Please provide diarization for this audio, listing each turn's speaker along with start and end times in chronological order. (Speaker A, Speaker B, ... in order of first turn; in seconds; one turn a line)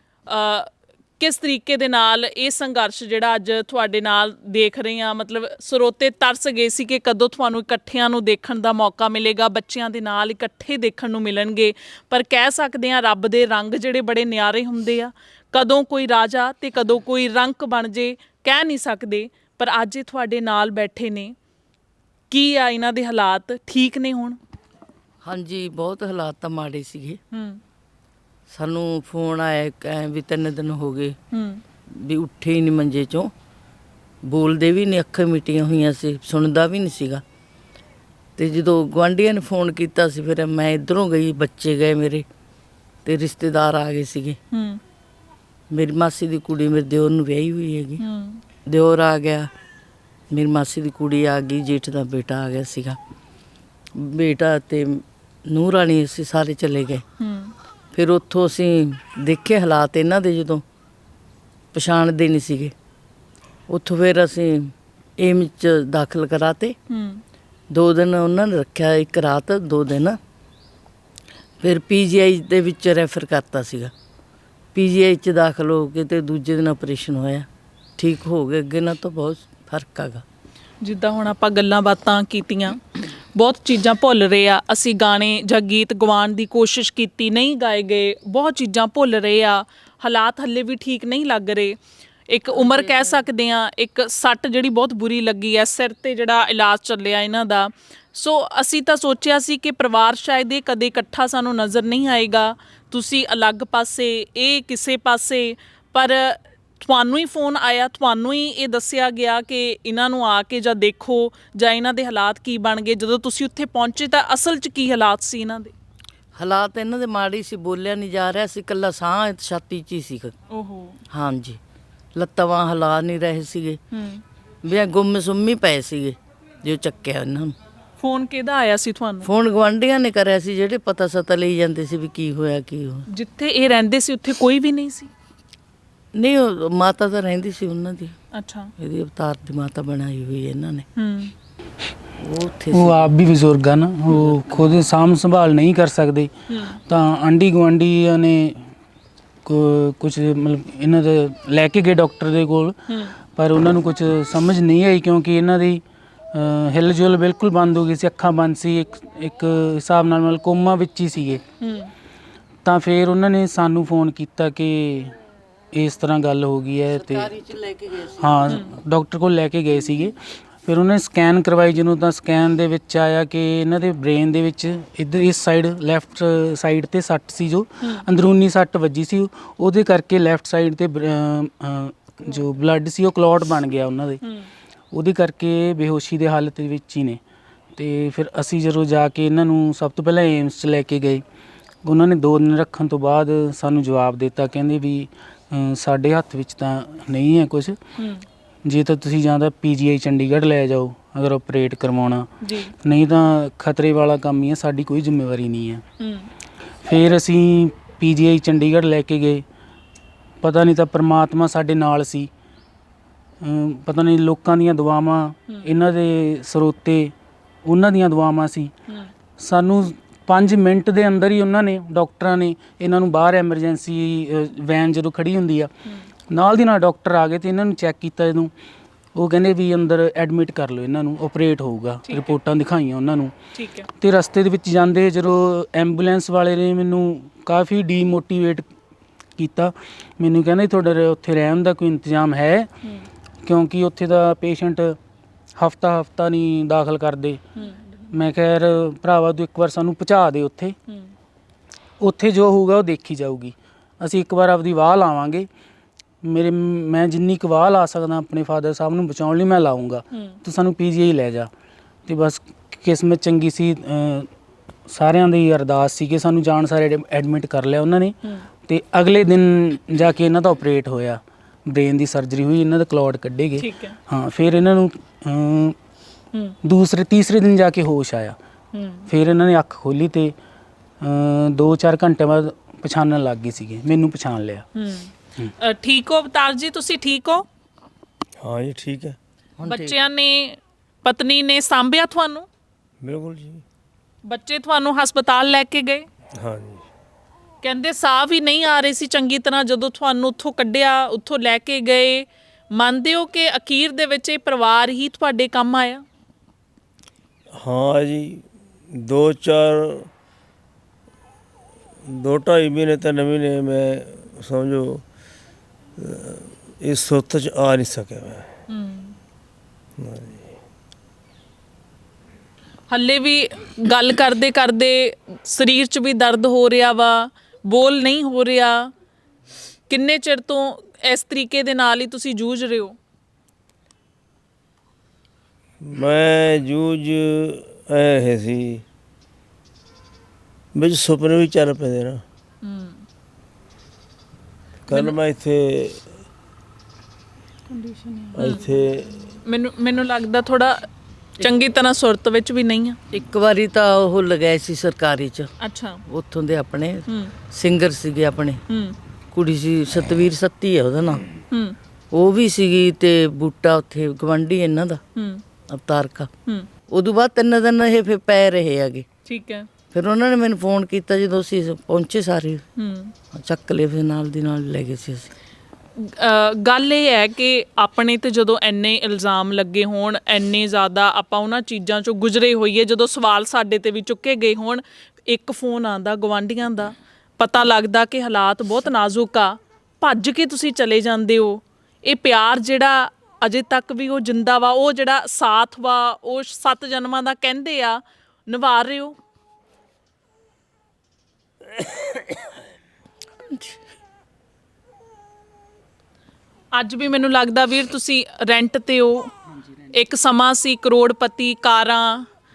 Speaker A: 0.3-21.4
Speaker A: 22.3-24.4
Speaker B: 25.2-27.2
Speaker A: 27.3-27.6
Speaker B: 28.5-31.2
Speaker A: 31.3-31.6
Speaker B: 31.9-33.3
Speaker B: 34.3-37.2
Speaker B: 38.4-42.2
Speaker B: 43.0-44.4
Speaker A: 44.5-44.8
Speaker B: 45.7-48.0
Speaker A: 48.0-48.4
Speaker B: 48.7-49.5
Speaker B: 50.3-53.0
Speaker B: 54.0-57.0
Speaker A: 57.2-57.5
Speaker B: 57.9-60.6
Speaker B: 61.7-62.7
Speaker B: 63.7-66.8
Speaker A: 66.9-67.2
Speaker B: 67.7-70.2
Speaker B: 71.6-73.9
Speaker B: 74.7-77.5
Speaker B: 78.0-80.2
Speaker A: 80.8-91.8
Speaker A: 92.3-115.7
Speaker B: 92.5-93.2
Speaker B: 116.4-120.3
Speaker A: 120.5-121.0
Speaker B: 121.1-121.6
Speaker B: 122.2-123.8
Speaker A: 123.9-124.2
Speaker B: 124.6-127.5
Speaker A: 128.0-129.3
Speaker B: 129.2-133.1
Speaker A: 133.1-135.1
Speaker B: 136.1-138.2
Speaker A: 138.3-138.7
Speaker B: 138.8-140.8
Speaker A: 141.0-141.3
Speaker B: 142.2-143.1
Speaker C: 142.7-146.3
Speaker A: 146.5-146.8
Speaker C: 146.9-148.7
Speaker C: 149.4-152.8
Speaker A: 152.9-153.2
Speaker C: 153.3-155.8
Speaker C: 156.3-161.4
Speaker A: 161.6-161.9
Speaker C: 162.6-165.2
Speaker C: 165.7-167.4
Speaker B: 166.9-168.5
Speaker C: 168.1-184.2
Speaker A: 177.8-178.1
Speaker A: 184.2-184.5
Speaker C: 184.9-187.2
Speaker C: 187.8-191.2
Speaker C: 191.8-197.8
Speaker A: 198.0-198.2
Speaker C: 198.7-202.3
Speaker A: 202.4-202.7
Speaker C: 202.8-205.8
Speaker A: 206.0-206.3
Speaker C: 206.8-209.4
Speaker C: 210.4-212.3
Speaker C: 213.4-217.1
Speaker C: 217.7-218.7
Speaker C: 219.4-225.7
Speaker C: 226.3-228.5
Speaker C: 229.2-233.3
Speaker A: 232.1-232.4
Speaker A: 233.5-233.9
Speaker C: 234.0-238.7
Speaker C: 239.4-242.7
Speaker C: 243.4-245.0
Speaker C: 245.6-247.4
Speaker C: 248.1-250.8
Speaker A: 250.9-251.1
Speaker C: 252.0-255.5
Speaker C: 256.2-261.5
Speaker A: 260.1-260.4
Speaker C: 262.1-264.3
Speaker C: 264.9-275.8
Speaker A: 273.6-274.0
Speaker C: 276.6-278.4
Speaker A: 278.7-279.1
Speaker C: 279.1-280.4
Speaker C: 281.0-284.7
Speaker A: 284.8-287.4
Speaker D: 288.4-289.2
Speaker B: 289.6-290.0
Speaker A: 289.6-292.5
Speaker D: 293.0-293.6
Speaker A: 294.3-296.1
Speaker D: 296.4-296.8
Speaker A: 297.6-306.0
Speaker D: 307.6-310.1
Speaker D: 312.1-315.0
Speaker D: 316.0-318.5
Speaker A: 318.7-319.2
Speaker D: 320.0-320.4
Speaker A: 322.9-328.9
Speaker A: 329.9-333.0
Speaker D: 335.8-338.8
Speaker D: 340.8-342.2
Speaker A: 342.6-343.0
Speaker D: 344.9-346.0
Speaker C: 347.8-348.3
Speaker D: 348.4-349.2
Speaker A: 348.4-348.7
Speaker A: 349.4-350.9
Speaker A: 351.4-353.0
Speaker B: 353.1-355.5
Speaker A: 355.6-356.0
Speaker B: 356.1-358.6
Speaker A: 357.1-357.3
Speaker A: 358.7-359.0
Speaker B: 359.3-361.2
Speaker A: 361.5-361.8
Speaker B: 362.1-365.0
Speaker A: 365.2-365.4
Speaker B: 365.7-366.3
Speaker B: 366.9-369.1
Speaker A: 369.3-369.7
Speaker B: 369.9-372.6
Speaker A: 372.8-373.1
Speaker B: 373.3-375.3
Speaker A: 376.0-399.1
Speaker D: 401.8-402.3
Speaker B: 403.4-403.8
Speaker A: 406.7-409.3
Speaker A: 409.9-412.3